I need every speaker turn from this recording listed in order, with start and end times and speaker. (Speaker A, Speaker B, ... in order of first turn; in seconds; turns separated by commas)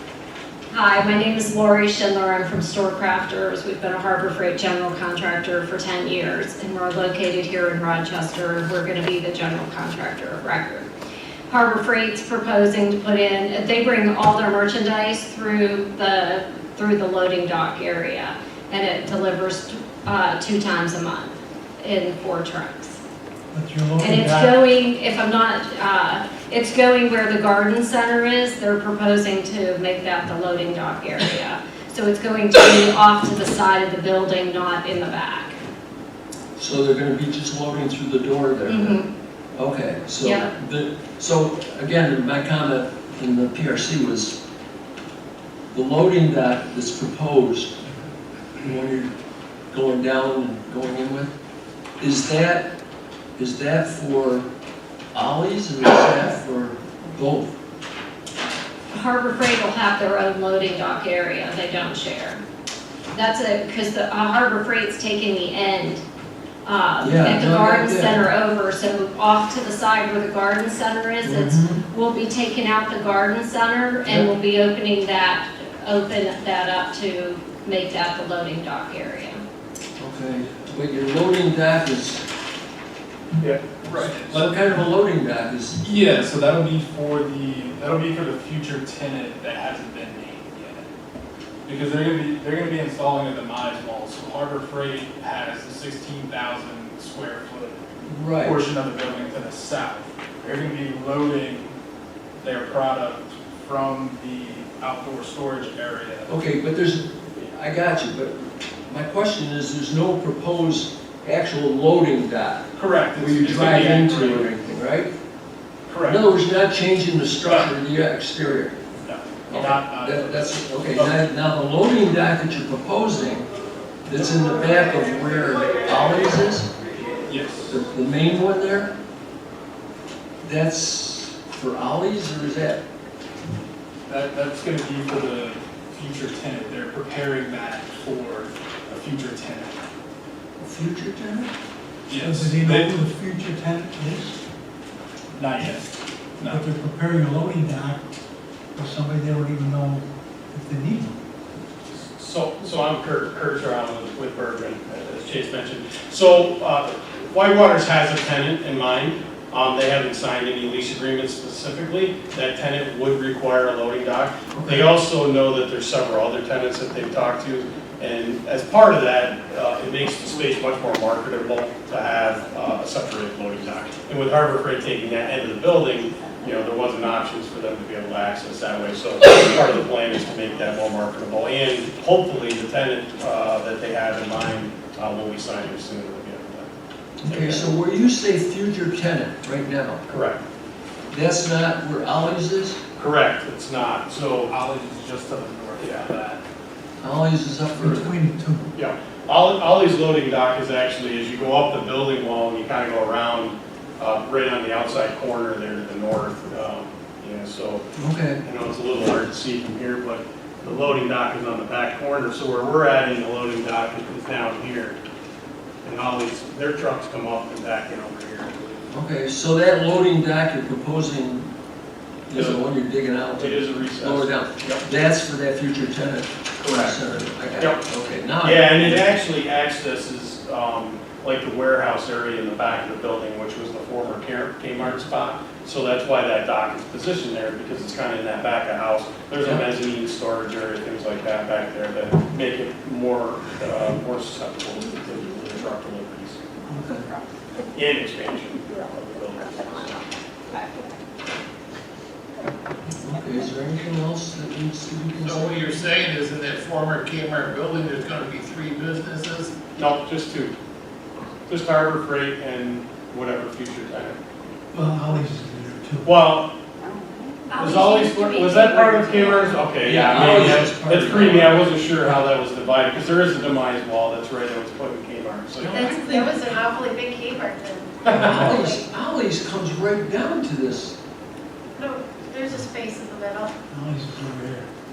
Speaker A: 0.7-10.9, Speaker A: 11.5-23.0, Speaker B: 23.5-24.5, Speaker A: 24.0-35.6, Speaker C: 36.6-39.0, Speaker A: 38.7-39.0, Speaker C: 39.5-44.4, Speaker A: 40.2-40.5, Speaker C: 45.7-47.8, Speaker C: 48.6-49.1, Speaker C: 49.7-51.3, Speaker C: 52.0-52.7, Speaker C: 53.4-54.5, Speaker C: 55.1-57.5, Speaker A: 58.9-62.4, Speaker A: 63.1-66.0, Speaker A: 66.7-79.4, Speaker C: 67.0-68.3, Speaker C: 71.2-71.8, Speaker C: 80.0-82.3, Speaker D: 83.8-84.5, Speaker C: 84.3-85.8, Speaker D: 85.8-90.9, Speaker D: 91.7-97.8, Speaker C: 98.0-98.6, Speaker D: 98.4-101.7, Speaker D: 102.4-106.4, Speaker C: 106.3-112.7, Speaker D: 112.7-114.5, Speaker C: 113.2-115.1, Speaker D: 115.9-116.2, Speaker C: 116.0-118.8, Speaker D: 117.4-117.7, Speaker D: 119.0-121.2, Speaker C: 119.5-123.5, Speaker C: 124.0-126.7, Speaker D: 127.3-127.8, Speaker C: 127.7-128.9, Speaker C: 130.4-132.8, Speaker D: 134.1-139.8, Speaker C: 140.6-141.5, Speaker D: 142.1-143.0, Speaker B: 142.1-144.4, Speaker D: 145.3-146.7, Speaker B: 146.5-148.0, Speaker B: 148.8-151.1, Speaker E: 152.2-186.7, Speaker C: 164.6-164.9, Speaker C: 187.2-190.0, Speaker E: 187.3-187.7, Speaker E: 190.1-190.4, Speaker C: 191.1-192.8, Speaker E: 193.0-194.5, Speaker D: 194.5-196.4, Speaker E: 195.8-196.1, Speaker C: 197.0-198.1, Speaker B: 197.8-198.7, Speaker E: 198.8-207.8, Speaker C: 208.0-208.4, Speaker E: 208.4-215.0, Speaker E: 215.8-218.9, Speaker C: 218.9-221.5, Speaker C: 222.3-229.1, Speaker E: 222.3-222.6, Speaker E: 223.3-224.8, Speaker E: 226.6-227.0, Speaker E: 228.4-246.4, Speaker C: 246.7-247.0, Speaker E: 247.7-250.0, Speaker C: 253.0-255.6, Speaker F: 255.2-259.6, Speaker E: 259.8-260.5, Speaker E: 261.5-264.2, Speaker B: 264.7-266.1, Speaker E: 266.0-266.5, Speaker A: 267.6-268.0, Speaker E: 267.6-276.0, Speaker G: 267.6-269.4, Speaker A: 268.8-269.0, Speaker C: 269.8-271.6, Speaker G: 275.7-278.7, Speaker E: 278.0-278.6, Speaker C: 278.1-281.0, Speaker G: 281.8-283.5, Speaker B: 283.7-284.7